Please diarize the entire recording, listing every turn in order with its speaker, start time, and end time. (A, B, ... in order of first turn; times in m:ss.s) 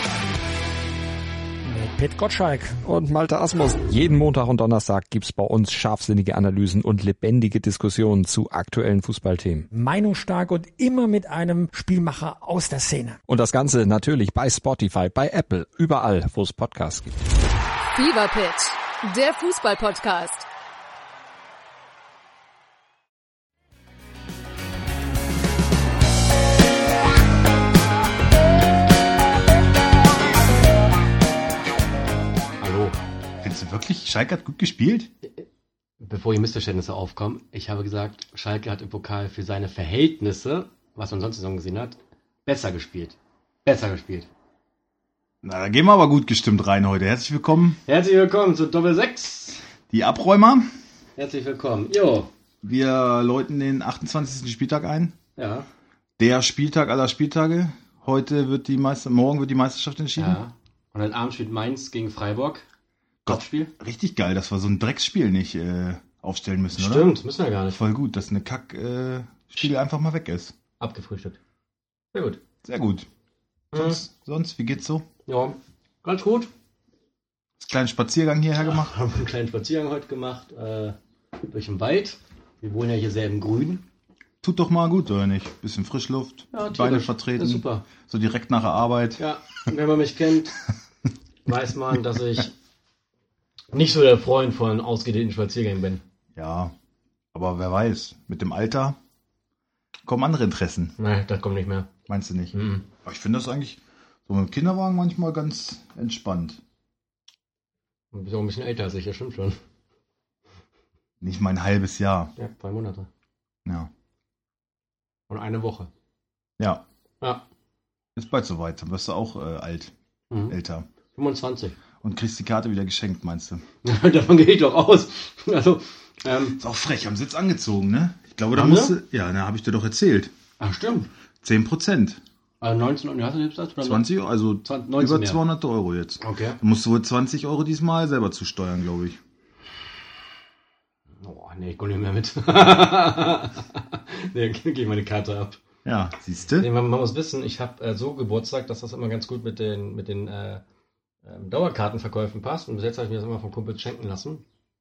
0:01.6-0:02.8 A
0:02.8-0:09.7 B
0:09.7-0:13.2 A
0:13.3-0:17.2 B
0:17.9-0:20.4 C
0:32.6-0:33.0 D
0:33.4-0:35.1 E
0:36.0-0:44.3 D
0:45.4-0:47.8 E
0:47.8-0:49.6 D
0:49.9-0:50.7 E
0:51.2-0:52.3 D
0:52.6-0:55.2 E
0:55.4-0:55.7 D
0:56.2-1:00.4 E
1:00.2-1:02.6 D
1:03.2-1:07.1 E
1:03.2-1:03.7 D
1:06.7-1:07.8 D
1:07.7-1:10.5 E
1:10.8-1:11.4 D
1:12.1-1:12.4 D
1:12.6-1:13.1 E
1:13.7-1:14.0 D
1:13.7-1:15.0 E
1:15.2-1:16.5 D
1:17.6-1:18.9 E
1:18.6-1:23.8 D
1:24.4-1:29.2 E
1:26.5-1:27.8 D
1:29.2-1:30.5 D
1:31.4-1:32.5 D
1:33.7-1:36.0 D
1:36.3-1:36.7 E
1:37.3-1:39.0 E
1:40.0-1:40.9 E
1:41.0-1:41.9 D
1:42.1-1:46.6 E
1:42.5-1:42.9 D
1:48.1-1:49.6 D
1:51.2-1:52.3 E
1:52.4-1:53.1 D
1:53.6-1:53.9 E
1:55.3-1:55.9 D
1:58.2-1:59.9 E
2:00.3-2:00.6 D
2:00.5-2:00.9 E
2:01.1-2:01.8 D
2:02.0-2:03.6 E
2:03.8-2:06.6 D
2:06.6-2:10.3 E
2:08.5-2:09.0 D
2:10.6-2:11.1 D
2:11.4-2:12.2 E
2:12.6-2:14.0 D
2:13.8-2:19.2 E
2:14.6-2:15.4 D
2:16.2-2:16.6 D
2:21.2-2:25.6 D
2:25.8-2:26.7 E
2:26.6-2:30.6 D
2:31.2-2:34.4 D